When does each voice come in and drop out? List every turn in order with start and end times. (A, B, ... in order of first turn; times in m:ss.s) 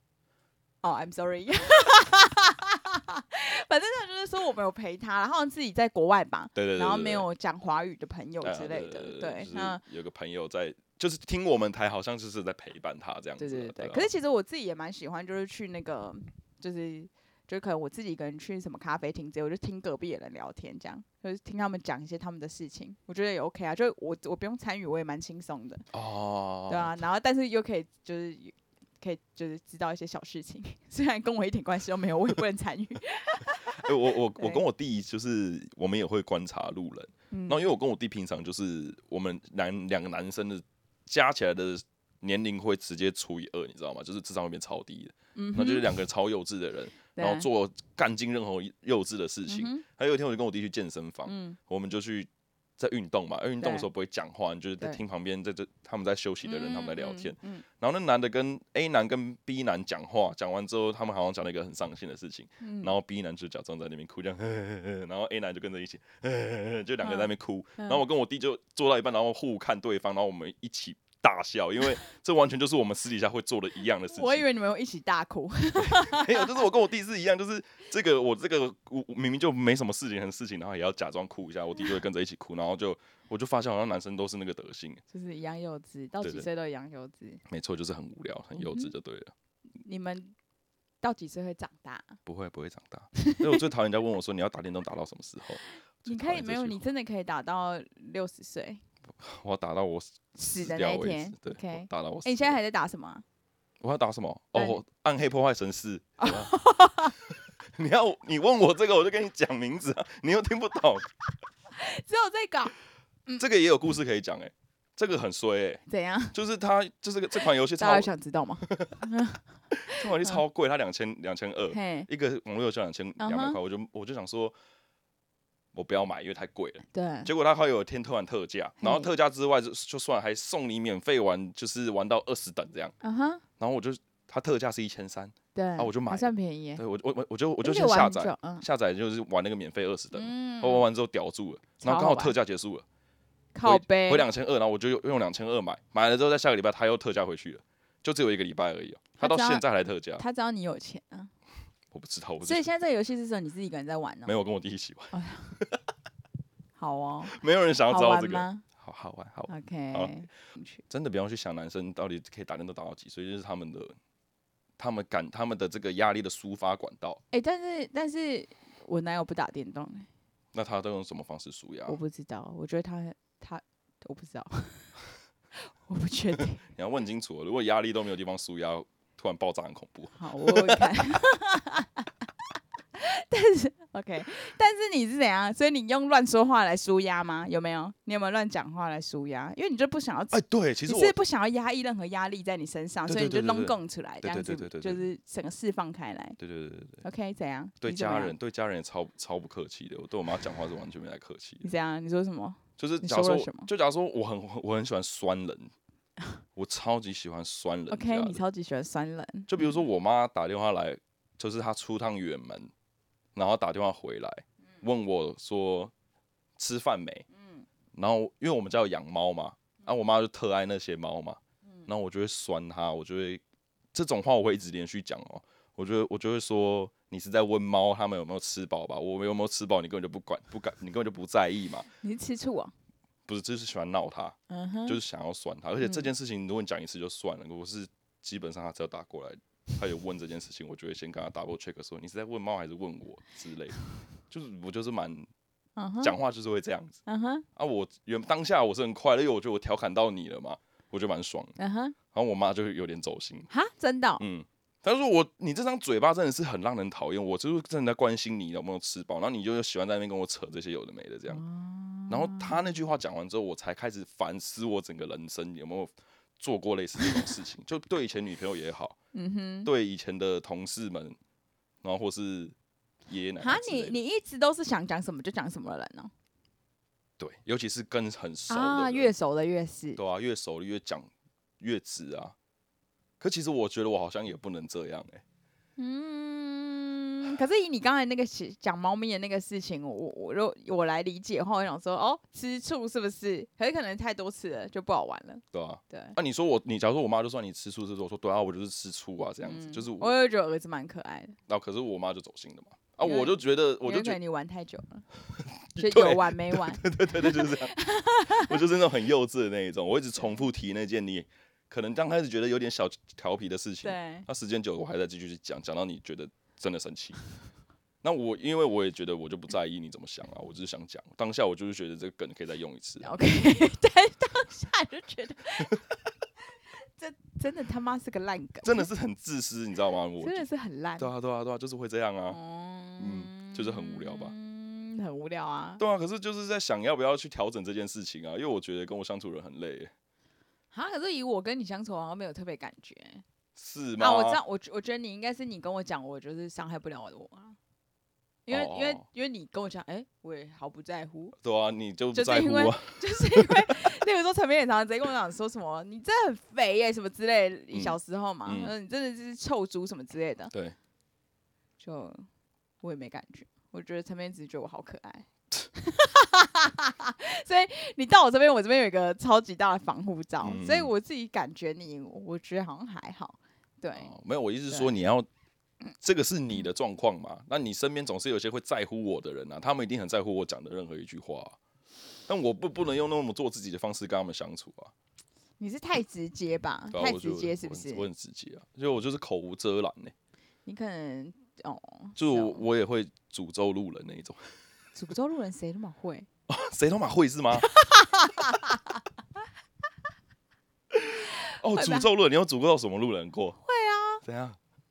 0:00.8-0:09.8 A
0:06.5-0:07.3 B
0:08.4-0:14.1 B
0:13.4-0:25.8 A
0:25.9-0:26.9 B
0:26.7-0:34.6 A
0:33.7-1:14.5 B
0:37.3-0:37.6 A
0:45.3-0:45.9 A
0:47.2-0:47.4 A
0:49.5-0:49.8 A
0:51.2-0:51.6 A
0:53.6-0:53.9 A
0:56.4-0:57.6 A
1:02.6-1:02.9 A
1:07.0-1:08.0 A
1:14.1-1:16.6 A
1:15.8-1:25.0 B
1:25.1-1:27.4 A
1:26.2-1:26.5 B
1:27.5-1:29.3 B
1:28.6-1:28.9 A
1:29.8-1:30.3 A
1:31.0-1:32.2 A
1:32.2-1:36.8 B
1:33.3-1:33.6 A
1:36.0-1:38.8 A
1:39.2-1:42.6 B
1:40.3-1:43.2 A
1:43.8-1:46.5 B
1:44.5-1:44.8 A
1:46.2-1:47.1 A
1:47.7-1:51.1 B
1:51.7-1:52.7 A
1:53.4-1:55.8 B
1:55.9-1:56.4 A
1:56.3-1:58.1 B
1:57.8-2:00.4 A
1:58.6-1:59.0 B
1:59.7-2:04.5 B
2:01.7-2:02.1 A
2:03.2-2:03.6 A
2:05.7-2:12.9 B
2:06.9-2:07.3 A
2:08.8-2:09.1 A
2:13.0-2:13.4 A
2:13.6-2:22.8 B
2:15.5-2:16.8 A
2:17.6-2:18.6 A
2:20.1-2:20.9 A
2:21.8-2:22.4 A
2:23.5-2:24.2 A
2:23.6-2:30.2 B
2:29.2-2:29.6 A
2:30.2-2:31.3 A
2:31.9-2:32.6 B
2:32.4-2:34.3 A
2:34.2-2:35.8 B
2:35.1-2:35.5 A
2:36.8-2:37.4 A
2:37.3-2:40.1 B
2:37.9-2:38.6 A
2:39.5-2:40.8 A
2:40.9-2:43.9 B
2:44.8-2:47.2 B
2:47.3-2:50.1 A
2:50.5-2:52.0 B
2:51.9-2:54.9 A
2:55.5-2:56.6 A
2:56.7-3:00.9 B
3:00.2-3:02.1 A
3:02.9-3:16.4 A
3:10.3-3:11.2 B
3:13.1-3:15.0 B
3:16.4-3:17.0 B
3:17.0-3:18.3 A
3:17.8-3:21.7 B
3:21.6-3:23.7 A
3:22.8-3:25.7 B
3:26.6-3:28.4 B
3:27.9-3:29.8 A
3:29.5-3:32.7 B
3:33.3-3:35.9 B
3:36.6-3:37.2 B
3:37.3-3:37.6 A
3:37.9-3:43.4 B
3:43.9-3:51.9 B
3:52.0-3:52.7 A
3:53.3-3:54.4 B
3:54.5-3:55.0 A
3:54.9-4:05.3 B
3:55.8-3:56.1 A
4:05.8-4:06.2 A
4:06.0-4:07.0 B
4:07.0-4:07.4 A
4:07.6-4:11.6 B
4:11.6-4:12.0 A
4:12.1-4:13.5 B
4:13.5-4:14.2 A
4:14.2-4:21.4 B
4:21.3-4:22.6 A
4:22.1-4:29.0 B
4:29.1-4:29.7 A
4:29.6-4:31.2 B
4:31.8-4:32.5 B
4:33.1-4:34.0 B
4:33.4-4:36.1 A
4:37.2-4:39.1 B
4:38.5-4:40.0 A
4:40.0-4:41.1 B
4:41.6-4:42.3 B
4:43.2-4:45.2 B
4:45.8-4:56.2 A
4:55.5-5:00.1 B
4:59.4-5:01.4 A
5:01.5-5:04.2 B
5:03.0-5:05.0 A
5:05.7-5:07.7 B
5:05.8-5:08.6 A
5:08.3-5:17.2 B
5:10.2-5:10.5 A
5:13.8-5:14.3 A
5:18.0-5:23.1 B
5:23.0-5:25.8 A
5:26.7-5:28.9 A
5:28.6-5:30.4 B
5:30.2-5:31.1 A
5:31.0-5:32.4 B
5:32.3-5:35.8 A
5:33.0-5:34.3 B
5:35.8-5:39.9 B
5:40.7-5:43.2 A
5:43.6-5:44.4 B
5:44.0-5:47.6 A
5:48.4-5:51.4 A
5:48.5-5:49.0 B
5:51.4-5:53.8 B
5:52.1-6:00.5 A
5:57.7-5:58.7 B
6:01.8-6:02.2 A
6:02.8-6:14.1 A
6:10.4-6:10.9 B
6:13.9-6:15.3 B
6:16.0-6:21.6 B
6:22.3-6:24.9 B
6:25.6-6:28.1 A
6:26.9-6:30.1 B
6:30.6-6:32.6 A
6:32.2-6:34.4 B
6:34.9-6:36.3 A
6:36.5-6:37.7 B
6:37.6-6:39.0 A
6:40.9-6:43.6 B
6:41.7-6:42.1 A
6:43.6-6:44.2 A
6:44.2-6:44.6 B